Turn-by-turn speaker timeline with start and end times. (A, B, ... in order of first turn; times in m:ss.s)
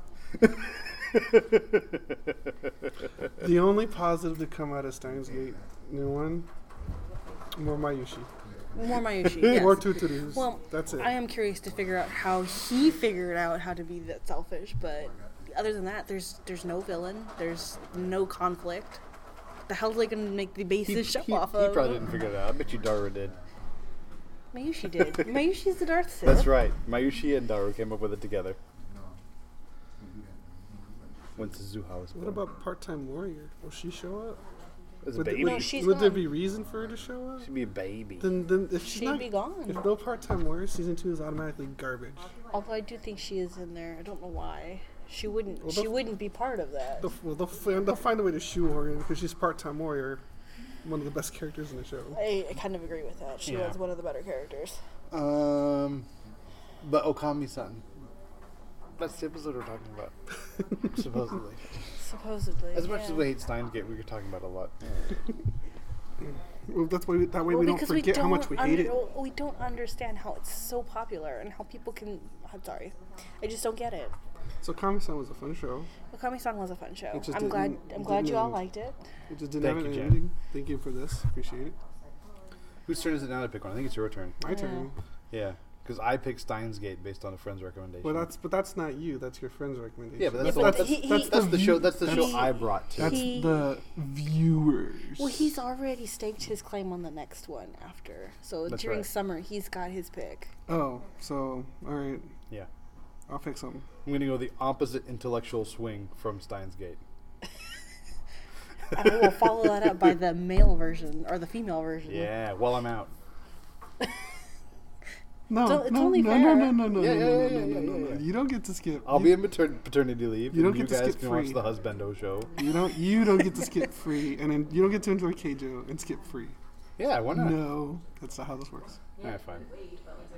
0:00.4-0:02.3 A
0:03.4-0:06.5 B
0:07.6-0:08.3 B
0:08.8-0:19.0 C
0:09.4-0:11.1 B
0:19.7-0:22.0 C
0:20.8-0:23.3 A
0:24.5-0:26.5 C
0:26.2-0:28.6 A
0:31.4-0:32.4 A
0:32.1-0:34.4 B
0:35.0-0:35.8 A
0:35.1-0:37.5 B
0:35.4-0:36.3 C
0:37.4-0:38.3 A
0:38.2-0:42.3 B
0:38.8-0:39.8 C
0:42.5-0:47.0 C
0:45.6-0:46.1 B
0:47.0-0:50.2 B
0:50.8-0:52.2 B
0:52.1-0:54.8 C
0:53.4-0:53.8 A
0:55.1-0:56.0 A
0:56.8-0:57.8 A
0:59.0-1:00.1 A
1:00.8-1:01.6 A
1:02.0-1:03.2 C
1:02.7-1:05.1 A
1:06.7-1:09.0 B
1:07.4-1:14.1 C
1:14.6-1:15.9 B
1:16.1-1:19.0 C
1:17.1-1:18.6 B
1:19.3-1:21.8 B
1:19.6-1:20.2 A
1:22.9-1:24.4 A
1:24.4-1:24.9 B
1:24.5-1:24.9 C
1:25.3-1:28.3 A
1:28.0-1:35.5 B
1:30.2-1:33.3 A
1:30.4-1:33.6 C
1:35.2-1:40.5 C
1:38.7-1:39.1 A
1:40.7-1:42.3 B
1:43.3-1:43.8 B
1:44.0-1:47.0 A
1:48.9-1:52.3 C
1:52.1-1:53.1 A
1:55.5-1:59.4 B
1:55.6-1:56.8 C
1:56.9-1:58.2 A
1:59.0-2:02.5 A
2:00.5-2:01.7 B
2:02.6-2:06.6 B
2:07.0-2:07.7 A
2:07.3-2:09.0 B
2:09.2-2:09.6 A